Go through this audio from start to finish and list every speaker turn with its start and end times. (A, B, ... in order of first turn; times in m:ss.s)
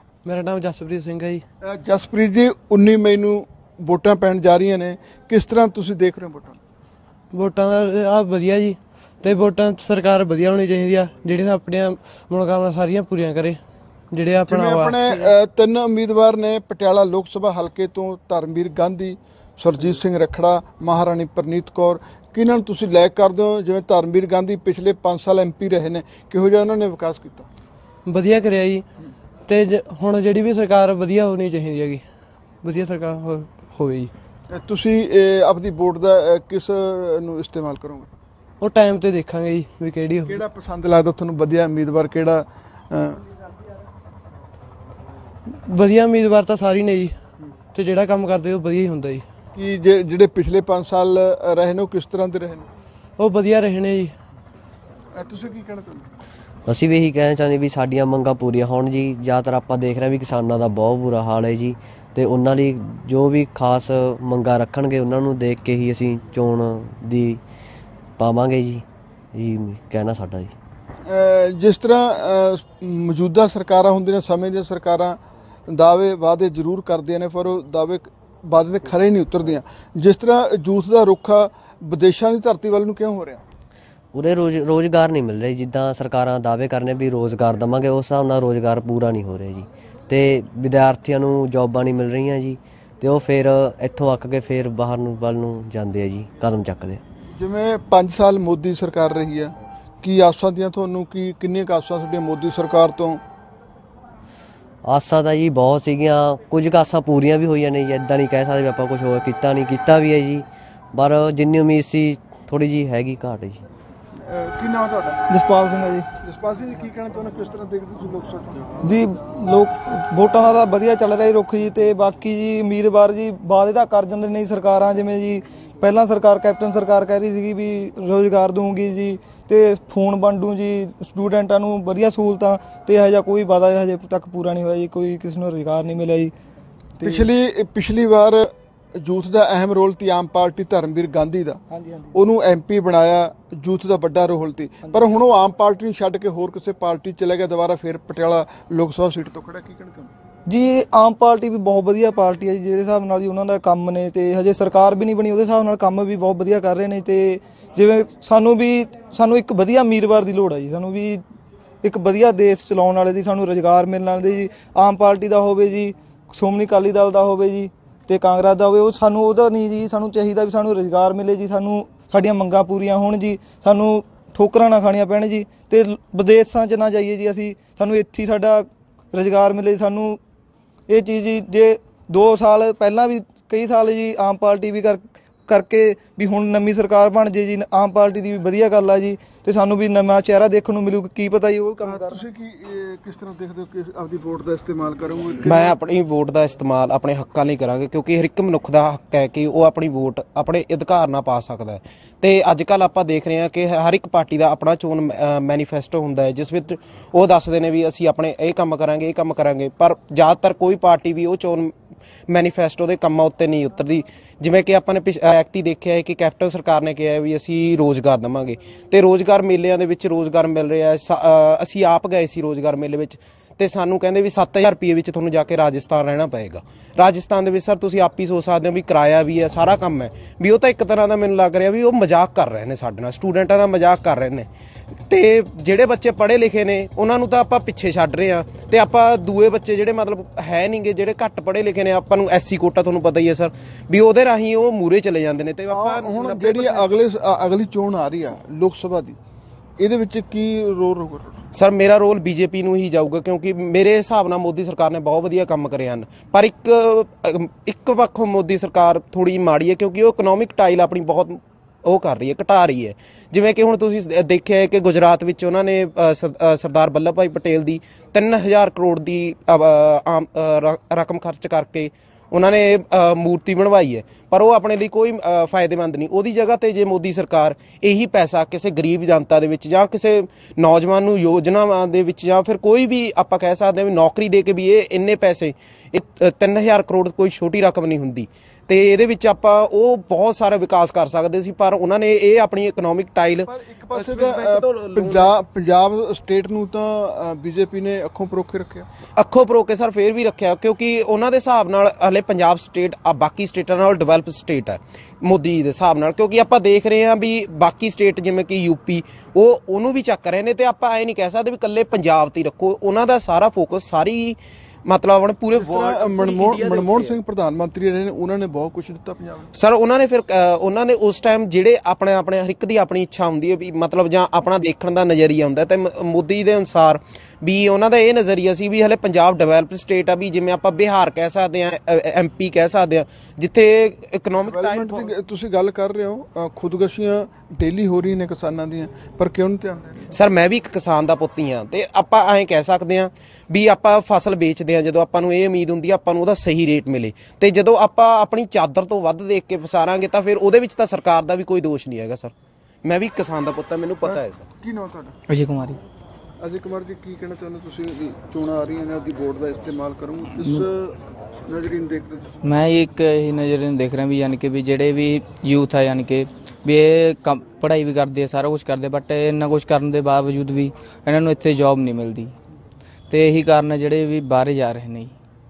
0:00.2-0:01.4 A
0:01.6-0:06.6 B
0:07.3-0:13.6 A
0:14.1-0:15.3 A
0:14.5-0:27.5 B
0:28.1-0:28.8 A
0:29.5-0:32.0 A
0:32.6-0:34.1 A
0:34.5-0:38.1 B
0:38.6-0:40.4 A
0:40.2-0:43.2 B
0:45.7-0:47.2 A
0:47.7-0:49.2 A
0:49.6-0:52.7 B
0:53.2-0:54.2 A
0:55.1-0:56.1 B
0:56.7-1:07.4 C
1:08.2-1:10.5 C
1:11.0-1:23.4 B
1:24.1-1:37.0 C
1:37.3-1:43.2 B
1:44.8-1:53.6 C
1:54.2-1:55.2 B
1:55.3-1:56.1 D
1:56.2-1:58.9 B
1:58.8-2:16.3 D
2:17.0-2:17.3 D
2:17.0-2:21.6 B
2:21.7-2:22.2 D
2:22.1-2:30.1 B
2:30.5-2:41.2 D
2:41.8-3:00.2 D
3:00.9-3:12.2 D
3:11.8-3:15.8 B
3:15.4-3:31.7 E
3:32.3-3:54.5 E
3:55.1-4:06.9 E
4:05.7-4:09.2 B
4:09.8-4:11.4 B
4:11.5-4:55.3 E
4:53.5-4:58.9 B
4:59.2-5:17.2 E
5:15.5-5:19.5 B
5:19.5-5:35.1 E
5:34.4-5:40.0 B
5:40.1-5:52.3 E
5:52.8-5:54.4 E
5:54.0-5:55.2 B
5:55.3-5:55.8 F
5:56.4-6:02.3 B
6:00.4-6:00.6 F
6:02.4-6:12.3 F
6:13.1-6:15.2 F